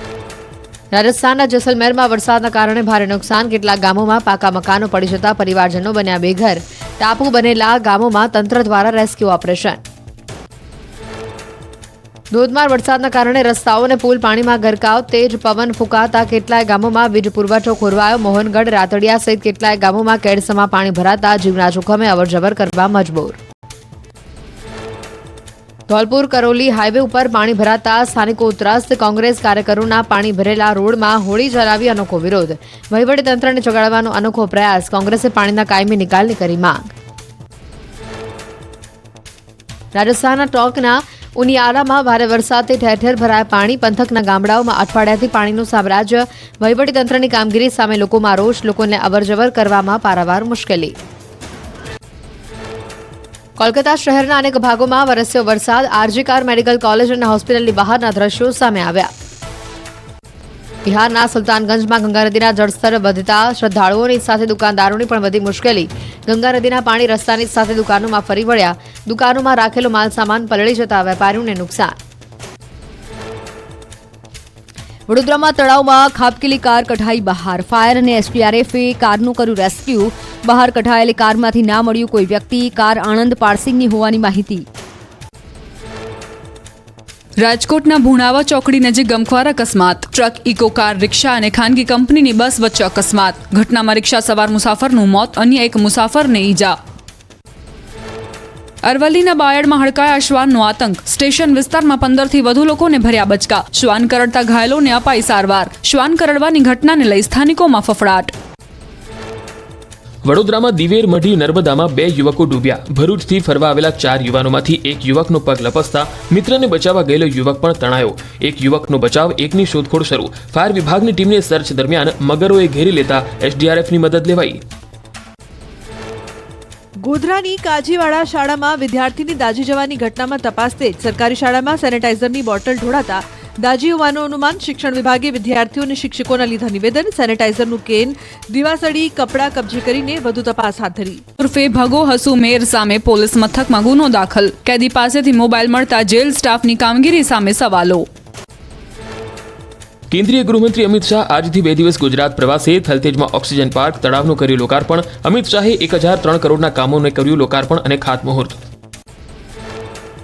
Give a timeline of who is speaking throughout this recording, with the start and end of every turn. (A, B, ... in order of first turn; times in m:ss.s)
0:00.9-0:09.8 A
0:12.3-0:23.4 A
0:25.9-0:36.9 A
0:39.9-0:50.9 A
0:53.6-0:59.1 A
1:00.8-1:11.9 A
1:15.1-1:24.6 B
1:27.4-1:36.7 C
1:38.8-1:48.3 C
1:50.2-2:04.6 D
2:07.0-2:21.2 E
2:21.4-2:28.0 C
2:30.1-2:38.6 D